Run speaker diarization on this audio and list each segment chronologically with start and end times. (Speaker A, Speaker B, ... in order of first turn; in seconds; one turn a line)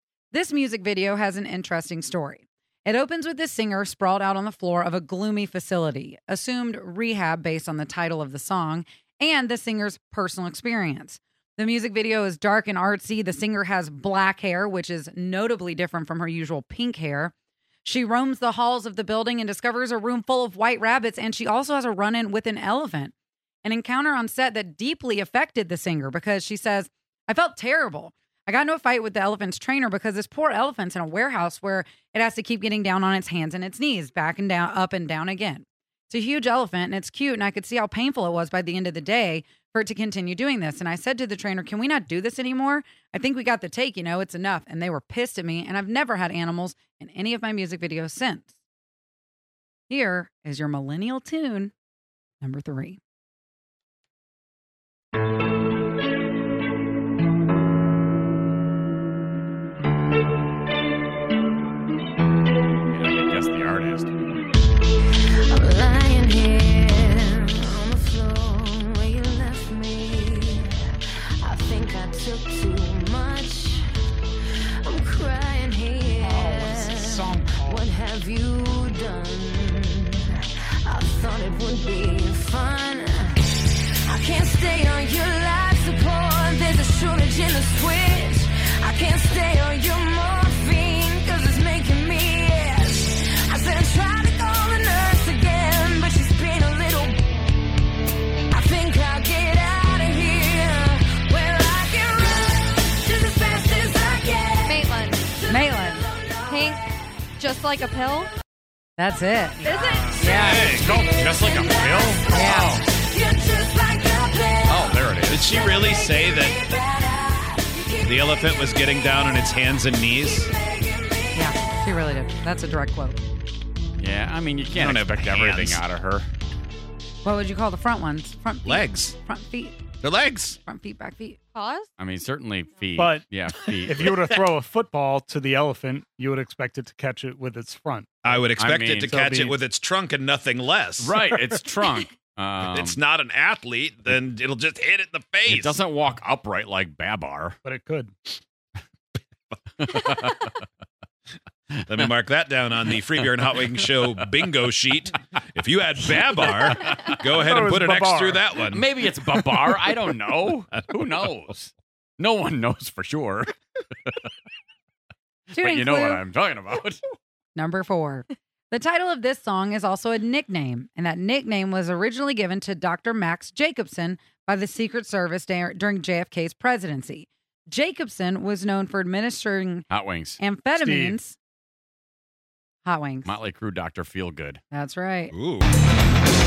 Speaker A: 0.3-17.3
Speaker A: 17.8-48.5
Speaker A: 49.9-51.7
Speaker A: 52.4-53.0
Speaker B: 62.9-64.4
Speaker C: 65.5-70.8
Speaker C: 71.4-73.8
Speaker C: 74.8-83.4
Speaker D: 76.2-77.9
Speaker C: 84.1-97.2
Speaker C: 98.5-104.8
Speaker E: 104.6-105.2
Speaker A: 105.5-106.1
Speaker E: 106.5-106.8
Speaker E: 107.4-108.3
Speaker A: 109.0-110.7
Speaker E: 109.6-110.4
Speaker B: 110.2-112.8
Speaker F: 110.4-110.8
Speaker C: 111.6-112.2
Speaker A: 112.3-112.8
Speaker C: 113.1-114.7
Speaker B: 114.6-115.5
Speaker F: 115.3-116.6
Speaker C: 115.8-116.4
Speaker C: 117.0-117.7
Speaker F: 118.0-120.5
Speaker A: 121.3-123.2
Speaker B: 124.0-126.3
Speaker F: 124.7-125.8
Speaker A: 127.2-129.8
Speaker F: 128.6-129.2
Speaker F: 130.0-130.6
Speaker A: 130.6-131.4
Speaker E: 131.5-131.9
Speaker B: 132.0-134.1
Speaker D: 132.9-138.5
Speaker F: 138.2-141.1
Speaker B: 138.6-139.2
Speaker D: 139.0-139.6
Speaker B: 141.0-143.0
Speaker F: 142.7-145.8
Speaker B: 145.5-147.6
Speaker D: 147.6-148.2
Speaker B: 149.8-150.5
Speaker F: 151.8-158.8
Speaker B: 156.7-157.0
Speaker D: 157.3-158.4
Speaker B: 158.7-163.5
Speaker B: 165.5-167.0
Speaker A: 165.5-166.2
Speaker A: 167.5-179.9
Speaker B: 179.9-180.4
Speaker A: 180.4-181.4
Speaker D: 180.8-181.2
Speaker A: 182.8-183.3
Speaker B: 183.2-184.6
Speaker A: 184.7-185.3
Speaker F: 185.3-185.7